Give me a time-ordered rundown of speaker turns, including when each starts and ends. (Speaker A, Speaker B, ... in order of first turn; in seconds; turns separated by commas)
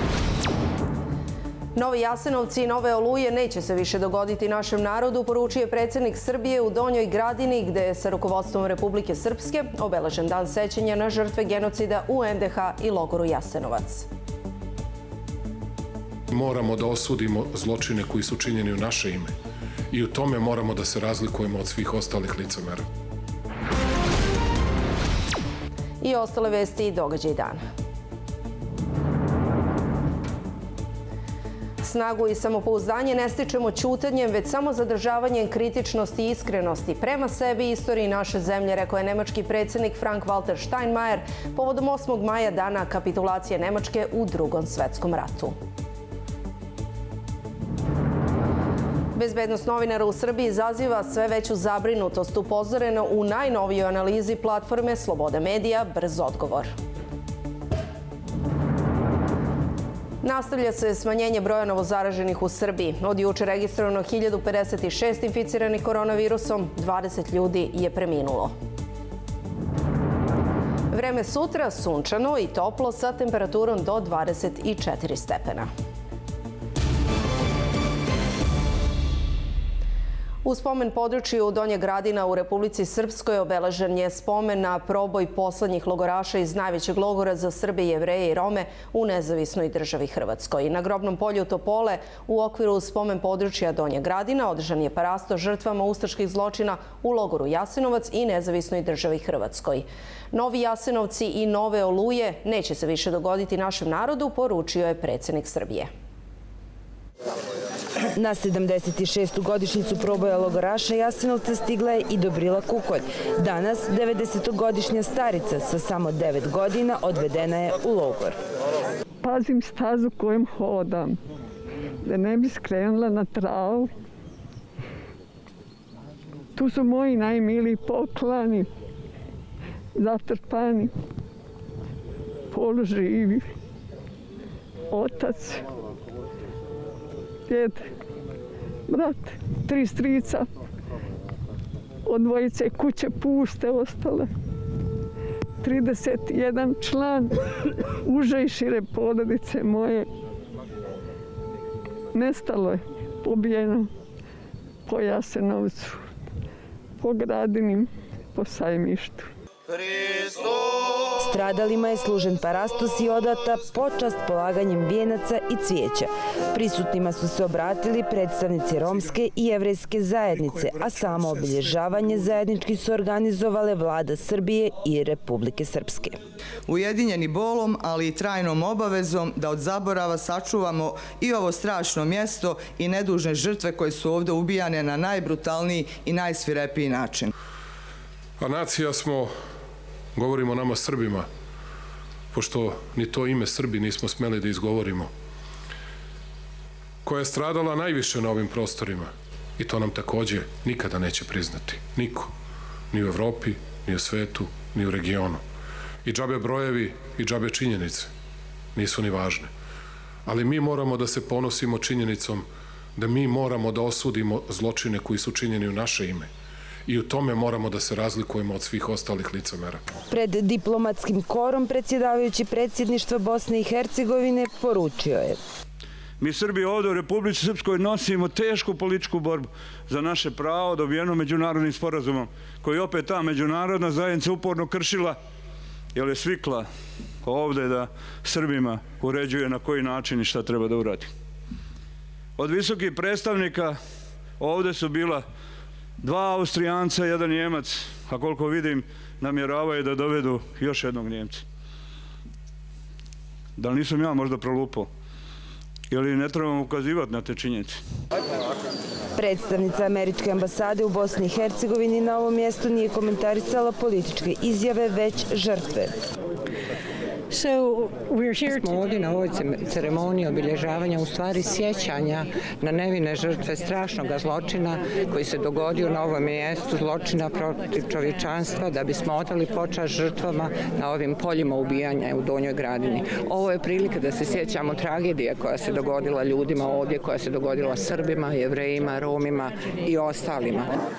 Speaker A: 1.8-14.1, Speaker B: 16.3-19.4, Speaker B: 19.9-22.9, Speaker A: 26.0-27.6, Speaker A: 31.8-45.5, Speaker A: 49.2-56.7, Speaker A: 60.2-68.5, Speaker A: 70.9-75.7, Speaker A: 80.4-105.9, Speaker C: 108.2-118.4, Speaker D: 119.2-121.2, Speaker D: 122.0-123.9, Speaker D: 126.6-128.7, Speaker D: 129.9-130.9, Speaker D: 132.5-133.4, Speaker D: 134.9-135.7, Speaker D: 137.5-137.9, Speaker D: 138.9-140.5, Speaker D: 142.1-144.3, Speaker D: 145.6-147.4, Speaker D: 148.0-150.1, Speaker D: 152.1-153.9, Speaker D: 154.9-156.1, Speaker D: 157.0-159.3, Speaker C: 161.2-176.2, Speaker E: 176.7-187.3, Speaker B: 188.4-189.3, Speaker B: 190.1-191.3, Speaker B: 192.3-195.1, Speaker B: 197.0-202.3, Speaker B: 202.9-205.4, Speaker B: 206.0-208.1, Speaker B: 208.8-209.5, Speaker B: 210.2-216.3, Speaker B: 216.9-219.8, Speaker C: 220.1-225.4, Speaker F: 226.2-235.2, Speaker F: 235.9-236.7, Speaker F: 237.2-241.1, Speaker F: 242.4-243.8, Speaker F: 244.4-245.2, Speaker F: 246.0-251.4, Speaker F: 253.6-254.9, Speaker F: 255.9-257.8, Speaker C: 259.2-265.9, Speaker G: 267.3-290.7